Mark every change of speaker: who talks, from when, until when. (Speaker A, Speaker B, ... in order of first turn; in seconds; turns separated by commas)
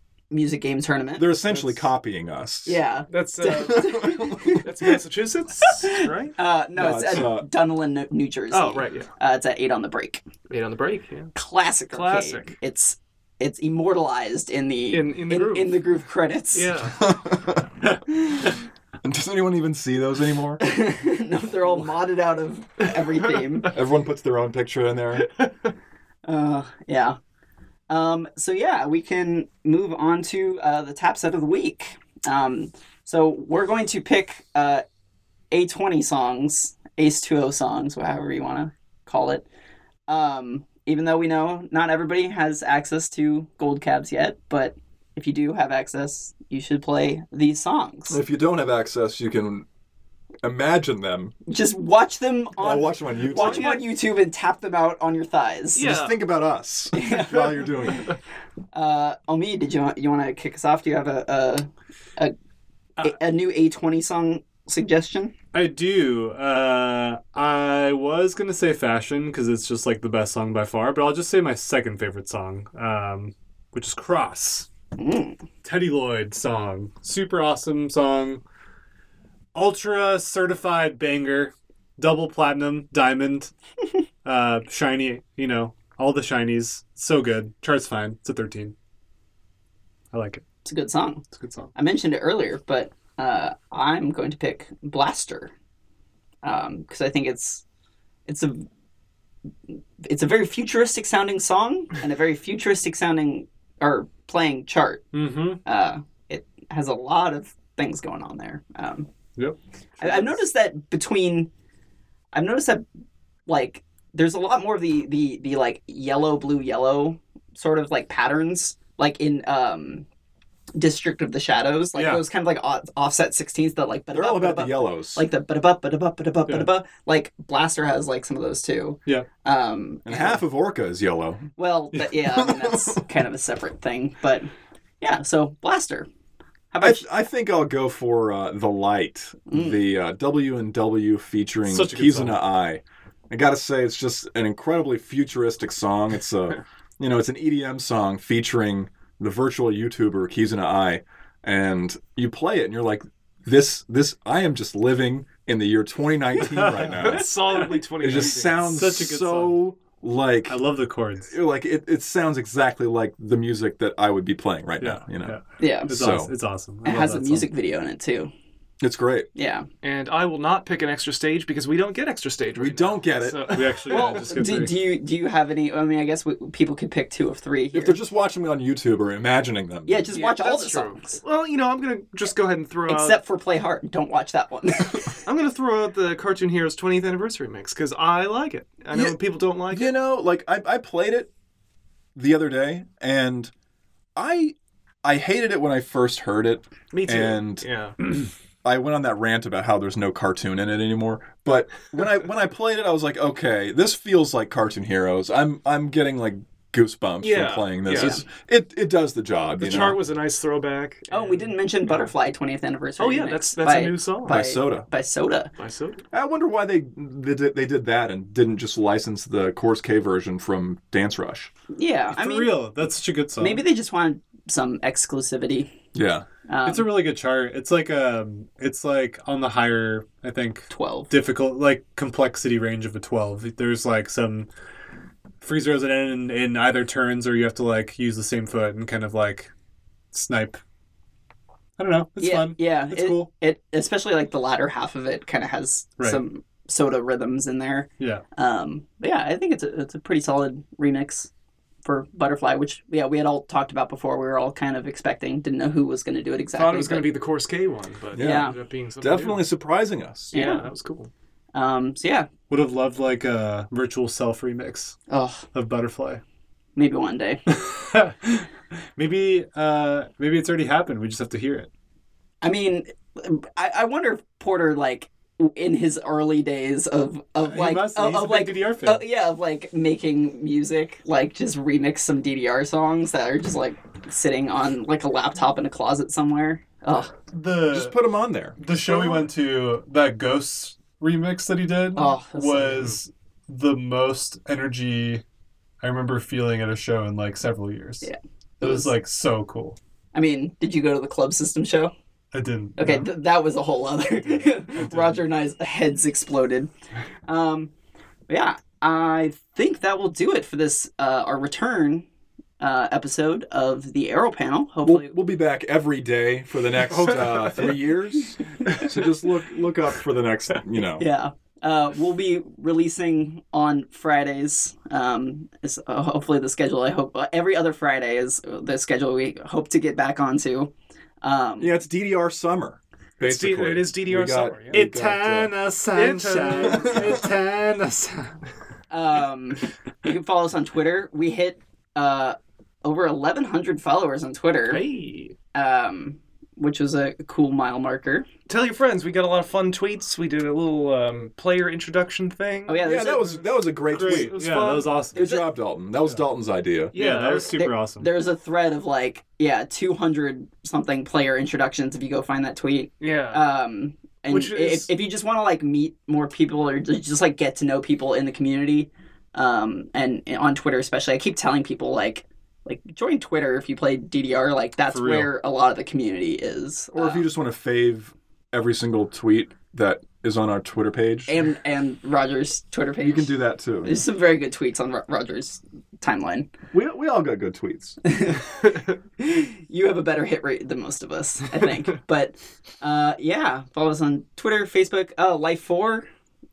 Speaker A: 0.3-1.3, Speaker B: 1.1-2.8, Speaker C: 1.5-1.8, Speaker A: 2.6-4.9, Speaker C: 3.1-6.3, Speaker B: 3.7-4.6, Speaker A: 5.7-10.2, Speaker B: 6.7-7.5, Speaker C: 8.5-9.1, Speaker C: 10.5-11.3, Speaker A: 11.3-16.8, Speaker C: 11.9-12.6, Speaker C: 14.9-15.8, Speaker C: 16.5-17.1, Speaker B: 17.0-17.7, Speaker B: 19.0-20.6, Speaker A: 20.6-23.7, Speaker B: 23.7-25.3, Speaker C: 25.2-25.7, Speaker A: 26.2-27.2, Speaker A: 27.9-34.8, Speaker A: 35.5-39.4, Speaker A: 40.1-48.2, Speaker B: 48.1-49.6, Speaker B: 50.4-51.3, Speaker A: 51.5-55.9, Speaker B: 52.6-53.7, Speaker C: 53.3-53.8, Speaker C: 55.7-56.1, Speaker B: 55.8-58.1, Speaker A: 56.9-58.0, Speaker A: 58.7-62.3, Speaker A: 63.0-65.3, Speaker D: 65.5-74.7, Speaker A: 75.0-75.4, Speaker D: 75.6-78.4, Speaker D: 79.5-83.5, Speaker D: 84.2-88.7, Speaker D: 90.1-90.4, Speaker A: 90.6-91.2, Speaker D: 91.3-91.7, Speaker A: 91.8-95.5, Speaker A: 96.4-97.6, Speaker A: 98.3-98.7, Speaker A: 100.0-105.1, Speaker D: 105.1-105.6, Speaker A: 105.6-109.1, Speaker A: 110.0-111.5, Speaker A: 112.3-112.8, Speaker A: 113.5-120.0, Speaker A: 120.8-130.4, Speaker D: 121.9-122.2, Speaker B: 124.1-125.2, Speaker B: 130.1-131.5, Speaker A: 131.6-134.5, Speaker B: 132.2-133.0, Speaker A: 135.0-136.1, Speaker A: 136.7-137.1, Speaker B: 136.8-160.6, Speaker A: 139.5-139.8, Speaker D: 141.6-142.4, Speaker C: 156.5-158.7, Speaker D: 158.6-159.6, Speaker D: 160.5-161.3, Speaker B: 161.3-165.4, Speaker D: 164.8-167.5, Speaker A: 165.6-165.9, Speaker B: 165.9-166.3, Speaker A: 166.8-168.3, Speaker B: 168.8-169.3, Speaker A: 169.4-169.7, Speaker C: 169.8-174.3, Speaker B: 172.6-173.6, Speaker D: 173.5-174.8, Speaker A: 173.9-178.0, Speaker B: 177.7-180.1, Speaker A: 179.9-181.2, Speaker C: 180.1-183.2, Speaker A: 182.9-185.2, Speaker C: 185.2-189.9, Speaker B: 189.7-191.3, Speaker B: 192.2-193.5, Speaker B: 194.2-197.6, Speaker C: 196.9-197.9, Speaker B: 198.6-210.0, Speaker C: 207.2-208.2, Speaker C: 209.6-212.1, Speaker A: 211.1-215.5, Speaker C: 213.0-214.4, Speaker B: 214.2-214.9, Speaker C: 215.6-216.0, Speaker B: 216.1-221.5, Speaker A: 221.7-222.6, Speaker D: 222.1-223.6, Speaker A: 223.4-225.7, Speaker B: 225.9-226.2, Speaker A: 226.5-226.9, Speaker D: 226.7-234.5, Speaker A: 230.7-231.1, Speaker D: 235.4-239.5, Speaker D: 240.1-240.6, Speaker D: 241.8-243.3, Speaker A: 242.2-251.3, Speaker A: 251.8-257.1, Speaker C: 256.5-259.4, Speaker B: 258.1-258.5, Speaker A: 258.2-258.6, Speaker B: 259.0-260.3, Speaker C: 260.3-261.1, Speaker A: 260.3-260.7, Speaker A: 261.5-262.3, Speaker D: 262.5-265.0, Speaker A: 265.1-265.4, Speaker D: 265.5-266.2, Speaker A: 266.8-267.4, Speaker D: 267.5-271.7, Speaker A: 272.4-287.1, Speaker D: 277.4-279.0, Speaker D: 287.3-287.9, Speaker B: 287.7-289.2, Speaker D: 288.6-295.2, Speaker A: 291.9-292.9, Speaker D: 295.8-298.1, Speaker A: 298.0-298.9, Speaker D: 298.6-299.8, Speaker A: 300.1-301.9, Speaker D: 302.3-303.1, Speaker A: 302.8-306.7, Speaker D: 304.4-305.2, Speaker A: 307.3-307.7, Speaker A: 308.3-312.1, Speaker A: 312.6-315.1, Speaker B: 314.8-321.1, Speaker D: 317.1-317.4, Speaker A: 321.0-330.7, Speaker A: 331.2-331.7, Speaker B: 331.6-335.5, Speaker C: 333.2-334.8, Speaker D: 334.7-338.4, Speaker C: 335.9-337.2, Speaker A: 338.9-344.8, Speaker C: 344.7-345.3, Speaker A: 345.5-348.2, Speaker C: 348.5-355.0, Speaker A: 352.7-353.4, Speaker B: 352.8-354.4, Speaker D: 353.9-355.2, Speaker A: 355.1-355.5, Speaker B: 355.1-356.9, Speaker C: 356.9-357.6, Speaker D: 356.9-358.1, Speaker A: 357.4-377.2, Speaker C: 363.0-363.4, Speaker C: 364.3-364.9, Speaker D: 374.9-375.3, Speaker B: 376.9-381.4, Speaker A: 381.3-383.3, Speaker B: 383.0-384.0, Speaker A: 383.8-386.5, Speaker B: 386.7-388.0, Speaker A: 388.1-396.1